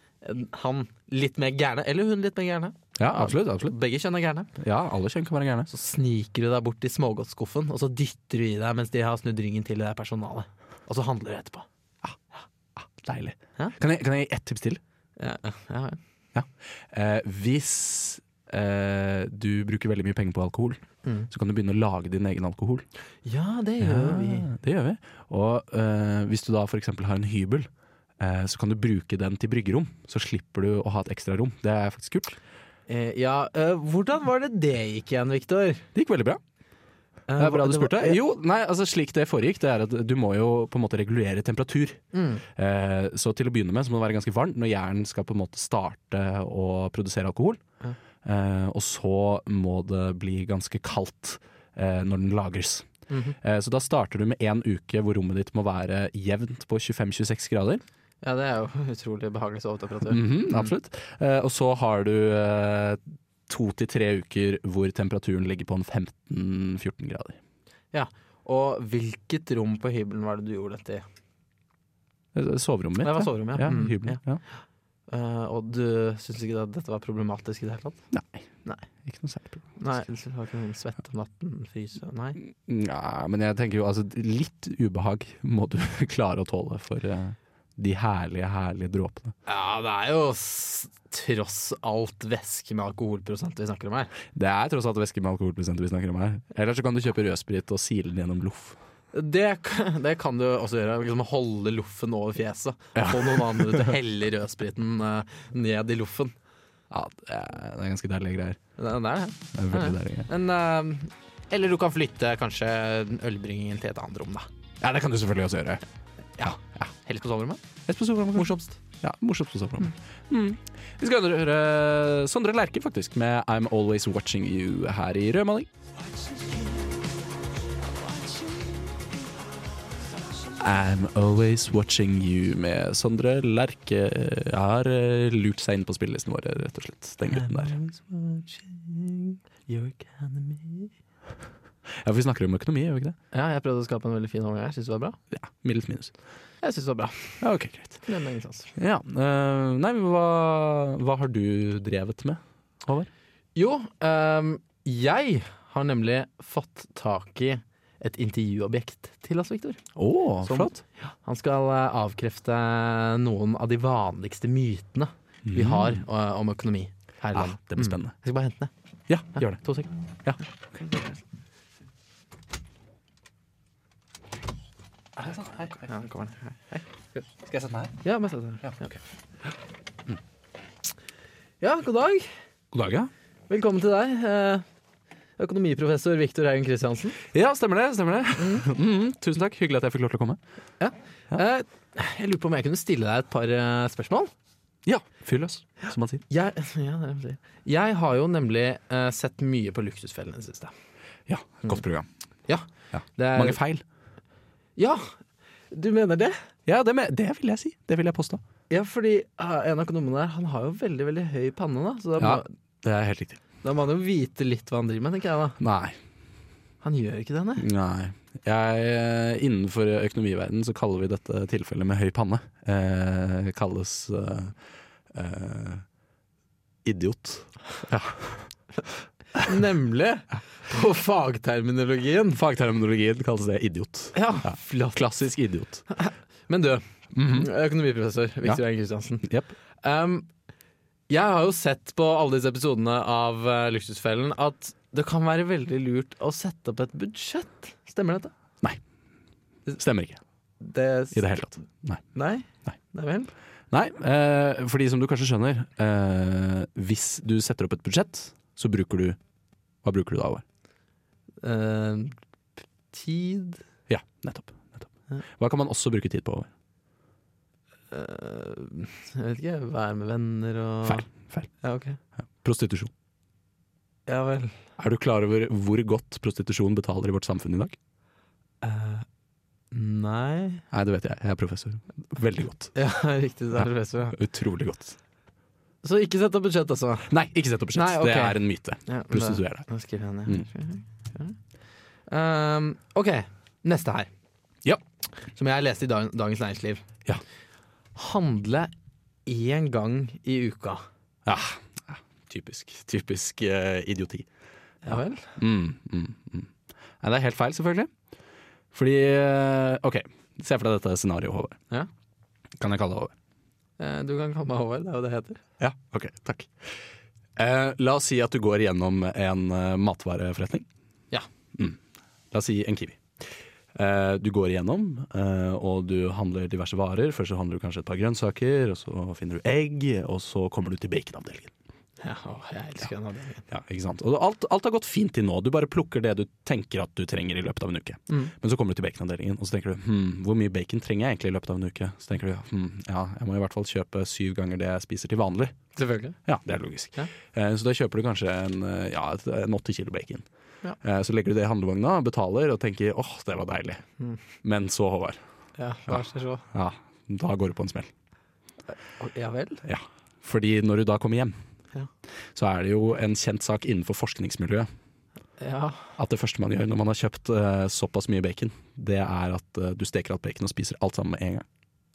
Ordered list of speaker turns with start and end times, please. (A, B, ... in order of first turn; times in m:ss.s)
0:00.2-0:04.5 A
0:03.0-0:03.7 B
0:04.6-0:05.7 B
0:05.7-0:11.6 A
0:12.8-0:14.8 B
0:15.2-0:16.0 A
0:16.3-0:22.8 B
0:23.2-0:24.5 A
0:23.8-0:32.4 B
0:32.9-0:35.8 A
0:35.9-0:36.4 B
0:37.3-0:38.2 A
0:37.4-0:47.6 B
0:42.1-0:42.4 A
0:48.2-0:52.9 B
0:53.1-0:53.4 A
0:53.4-0:57.8 B
0:58.2-1:00.7 A
1:00.1-1:07.4 B
1:07.9-1:11.0 A
1:12.3-1:14.4 B
1:13.0-1:14.2 A
1:15.1-1:18.0 A
1:18.1-1:18.5 B
1:19.0-1:19.7 B
1:19.8-1:22.4 A
1:22.4-1:29.3 B
1:29.5-1:34.1 A
1:34.3-1:38.8 B
1:39.1-1:46.4 A
1:42.9-1:44.0 B
1:46.9-1:48.6 B
1:48.8-1:54.5 A
1:49.5-1:50.3 B
1:54.8-1:55.8 B
1:56.4-1:56.9 B
1:57.0-1:57.6 A
1:57.9-2:05.7 B
1:58.3-1:58.8 A
2:10.6-2:17.8 B
2:17.3-2:20.9 A
2:21.9-2:23.2 B
2:23.3-2:25.2 A
2:25.3-2:26.1 B
2:26.6-2:27.4 A
2:27.4-2:28.0 B
2:28.0-2:28.7 A
2:28.8-2:33.1 B
2:33.5-2:39.8 A
2:39.9-2:40.8 B
2:40.4-2:48.7 A
2:45.4-2:46.0 B
2:47.3-2:48.1 B
2:49.1-2:49.6 B
2:49.3-2:49.9 A
2:50.7-2:51.2 A
2:55.2-2:56.8 A
2:55.3-2:55.8 B
2:57.2-2:58.0 B
2:58.0-2:58.9 A
2:58.6-2:59.0 B
3:01.6-3:02.3 A
3:02.7-3:03.1 B
3:03.5-3:04.6 A
3:05.4-3:07.2 A
3:07.3-3:10.4 B
3:08.4-3:08.6 A
3:10.8-3:14.3 A
3:14.8-3:16.2 B
3:16.3-3:20.7 A
3:21.3-3:22.1 B
3:22.5-3:23.6 A
3:22.9-3:23.8 B
3:24.8-3:25.1 A
3:25.7-3:26.4 A
3:26.6-3:28.4 B
3:28.7-3:32.5 A
3:32.2-3:33.4 B
3:33.6-3:35.6 A
3:35.6-3:36.0 B
3:36.8-3:37.6 A
3:37.6-3:44.6 B
3:45.1-3:45.8 B
3:46.8-3:48.5 B
3:49.4-3:52.4 A
3:52.3-3:55.8 B
3:54.1-3:54.9 A
3:55.9-3:59.3 A
3:57.1-3:57.5 B
3:59.2-3:59.5 B
3:59.8-4:00.3 A
4:01.1-4:08.3 A
4:09.8-4:10.2 B
4:10.6-4:11.3 A
4:11.1-4:12.0 B
4:12.1-4:13.3 A
4:13.7-4:19.2 B
4:19.8-4:20.4 B
4:21.4-4:22.2 A
4:22.9-4:23.6 A
4:23.9-4:26.5 B
4:27.9-4:31.1 A
4:30.8-4:31.5 B
4:31.6-4:32.0 A
4:32.2-4:32.9 B
4:34.1-4:34.5 A
4:34.8-4:37.8 B
4:38.6-4:39.0 A
4:39.7-4:40.6 A
4:40.7-4:42.7 B
4:42.7-4:44.1 A
4:43.5-4:45.0 B
4:45.8-4:47.1 A
4:47.1-4:49.7 B
4:47.7-4:51.4 A
4:52.1-4:54.1 A
4:55.2-4:56.8 A
4:57.9-4:58.7 A
4:59.2-5:00.8 A
5:01.2-5:04.3 B
5:04.8-5:05.3 A
5:04.9-5:06.5 B
5:07.0-5:07.9 B
5:08.7-5:11.6 B
5:12.6-5:13.1 B
5:13.8-5:15.4 A
5:15.6-5:16.8 B
5:17.4-5:20.6 B
5:22.3-5:31.5 B
5:32.0-5:33.4 A
5:33.5-5:45.6 B
5:45.8-5:46.2 A
5:46.2-5:50.2 B
5:50.8-5:53.8 B
5:54.4-5:55.2 B
5:55.6-5:56.4 A
5:56.5-5:57.9 B
5:59.0-5:59.6 A
5:59.6-6:01.4 B
6:02.3-6:04.7 B
6:05.4-6:05.9 A
6:06.0-6:11.4 B